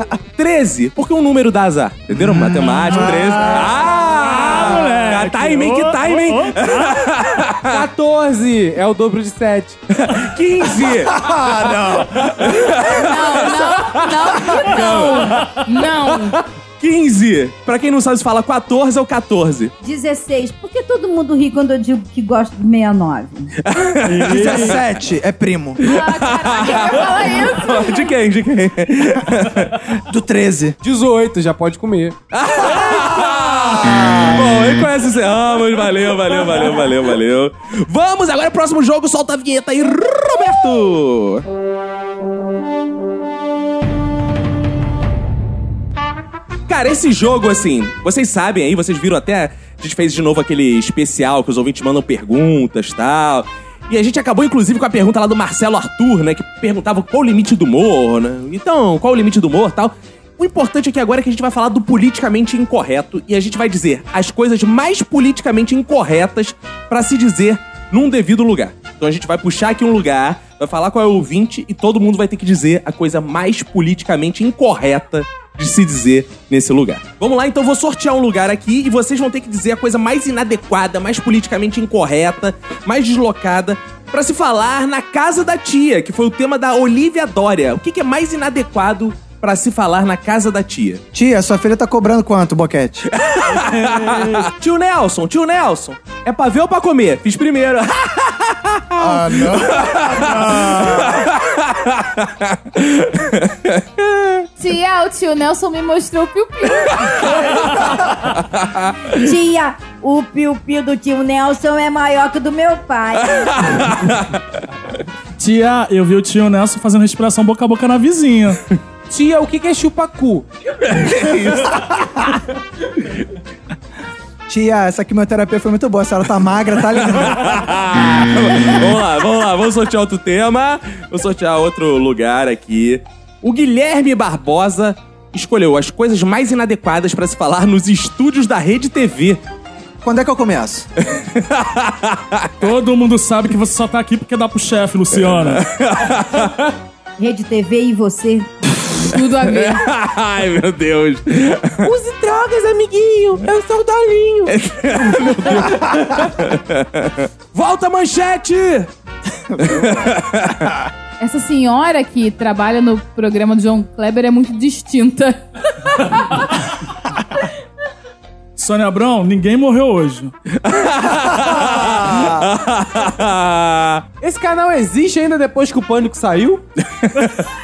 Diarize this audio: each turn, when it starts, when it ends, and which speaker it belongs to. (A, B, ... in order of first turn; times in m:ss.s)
0:00.4-0:07.8 A
0:02.1-0:03.7 B
0:04.0-0:06.9 C
0:07.6-0:09.8 D
0:10.0-0:11.3 A
0:11.1-0:12.3 B
0:12.2-0:13.9 A
0:12.9-0:16.4 E
0:14.5-0:15.3 A
0:16.8-0:19.7 A
0:19.8-0:23.5 F
0:23.6-0:24.8 A
0:24.1-0:24.8 C
0:24.2-0:25.8 B
0:25.8-0:28.1 E
0:25.8-0:29.9 A
0:30.1-0:30.8 B
0:30.8-0:32.2 D
0:32.3-0:41.4 A
0:46.7-1:31.0 A
1:31.1-1:33.1 B
1:33.2-1:44.4 A
1:39.0-1:41.3 B
1:44.6-1:47.3 E
1:49.1-1:53.9 F
1:55.4-1:58.6 C
1:59.1-2:00.5 D
2:00.8-2:01.9 A
2:04.5-2:07.5 B
2:07.1-2:19.4 A
2:20.0-2:20.9 B
2:21.2-2:22.5 A
2:22.6-2:25.6 C
2:25.5-2:26.7 A
2:27.2-2:28.5 F
2:29.0-2:29.8 E
2:29.5-2:31.9 A
2:31.8-2:34.5 D
2:34.4-2:38.9 A
2:39.6-2:40.1 B
2:39.6-2:40.7 A
2:41.2-2:46.4 E
2:48.6-2:50.3 C
2:50.6-2:54.0 A
2:51.8-2:52.2 B
2:54.2-2:56.6 D